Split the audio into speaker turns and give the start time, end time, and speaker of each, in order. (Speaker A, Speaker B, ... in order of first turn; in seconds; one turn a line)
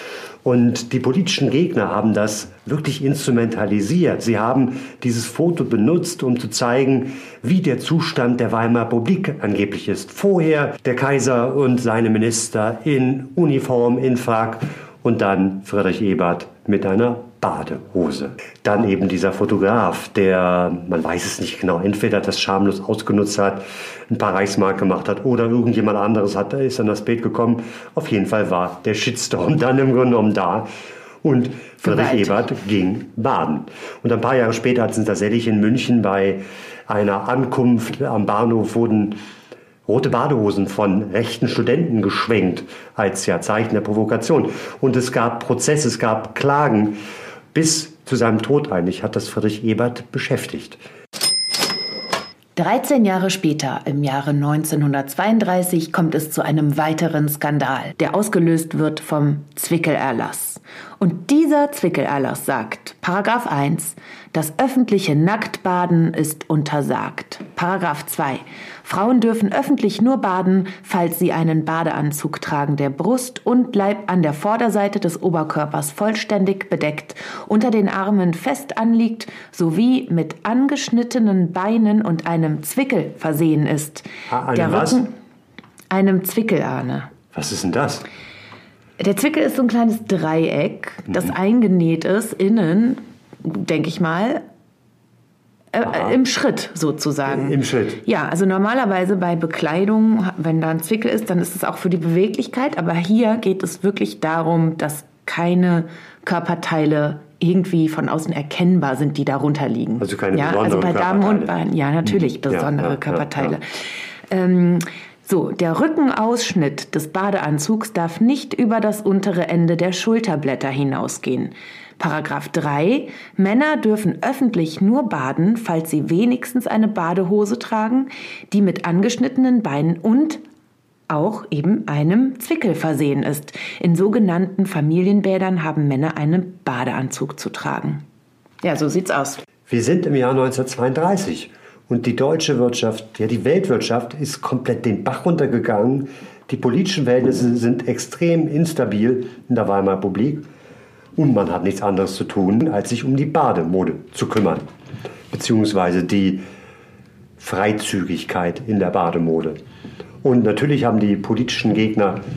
Speaker A: 0.4-30.7
Speaker A: 31.2-39.2
Speaker B: 31.8-32.5
Speaker A: 39.9-47.0
Speaker A: 47.5-50.8
Speaker B: 52.6-85.1
Speaker A: 84.3-85.0
Speaker B: 85.9-87.1
Speaker A: 87.3-88.1
Speaker B: 89.0-94.4
Speaker A: 91.1-91.3
Speaker B: 95.7-130.4
Speaker A: 95.8-96.2
Speaker A: 97.3-98.0
Speaker A: 110.0-111.5
Speaker A: 112.0-113.6
Speaker B: 131.1-138.0
Speaker B: 138.6-139.4
Speaker A: 139.7-150.4
Speaker A: 151.2-154.7
Speaker A: 155.3-156.4
Speaker A: 157.4-159.6
Speaker A: 160.2-162.2